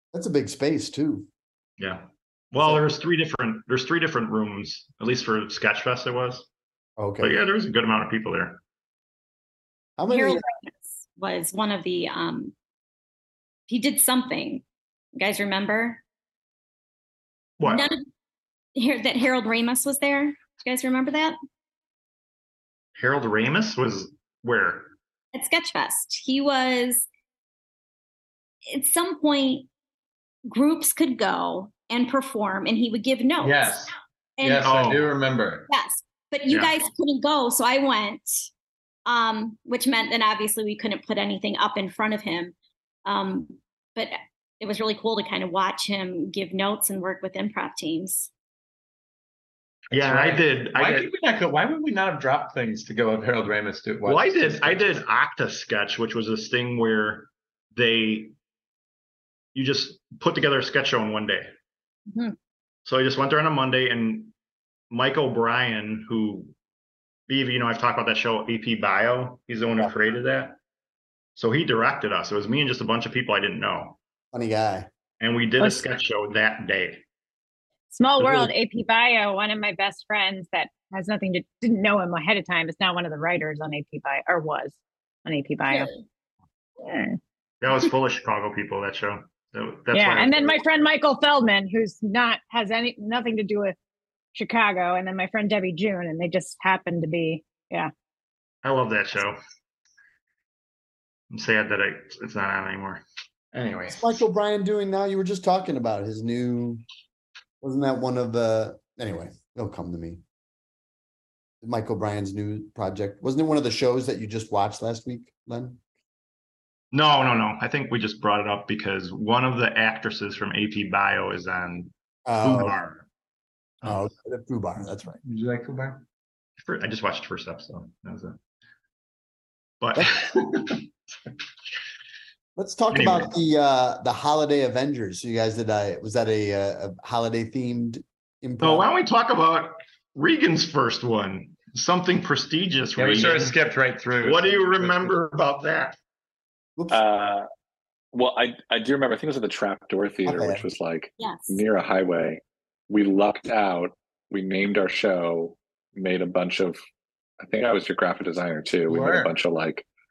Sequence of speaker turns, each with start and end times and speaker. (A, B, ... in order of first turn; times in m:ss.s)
0:00.1-0:01.3 A
0:01.8-0:06.5 B
0:02.6-0:02.9 A
0:07.0-0:07.4 A
0:07.2-0:08.6 B
0:10.0-0:10.4 A
0:10.1-0:12.5 C
0:13.7-0:14.6 C
0:15.2-0:16.0 C
0:17.6-0:17.9 B
0:17.6-0:18.0 C
0:18.8-0:21.4 C
0:23.0-0:25.0 B
0:25.3-0:27.1 C
0:28.7-0:29.7 C
0:30.5-0:33.8 C
0:33.4-0:33.9 D
0:34.4-0:34.7 C
0:34.4-0:35.7 D
0:34.5-0:35.1 B
0:35.7-0:38.4 C
0:36.5-0:36.7 B
0:39.1-0:48.3 C
0:49.9-0:51.1 B
0:49.9-0:55.0 D
0:54.0-0:58.4 B
0:59.6-1:01.5 B
1:02.1-1:02.4 C
1:02.9-1:04.3 B
1:04.9-1:06.5 B
1:07.3-1:10.6 B
1:11.4-1:14.0 B
1:14.3-1:14.9 A
1:15.2-1:17.0 B
1:17.9-1:25.9 E
1:18.2-1:18.5 A
1:25.7-1:26.0 C
1:26.8-1:27.2 E
1:27.6-1:30.8 B
1:29.9-1:33.8 E
1:34.4-1:37.9 E
1:38.6-1:39.4 B
1:41.3-1:44.2 B
1:43.9-1:46.8 A
1:47.6-1:50.2 A
1:51.6-1:55.8 A
1:56.9-2:03.0 B
2:02.3-2:02.8 A
2:03.8-2:05.2 A
2:05.2-2:06.0 D
2:06.6-2:08.4 B
2:09.8-2:10.9 B
2:12.6-2:18.9 A
2:12.9-2:13.3 B
2:18.6-2:23.6 B
2:23.0-2:25.1 D
2:24.2-2:26.0 B
2:26.8-2:27.0 A
2:26.9-2:27.5 F
2:28.1-2:36.8 F
2:30.3-2:30.6 A
2:31.2-2:31.6 C
2:37.4-2:39.8 F
2:38.9-2:39.3 D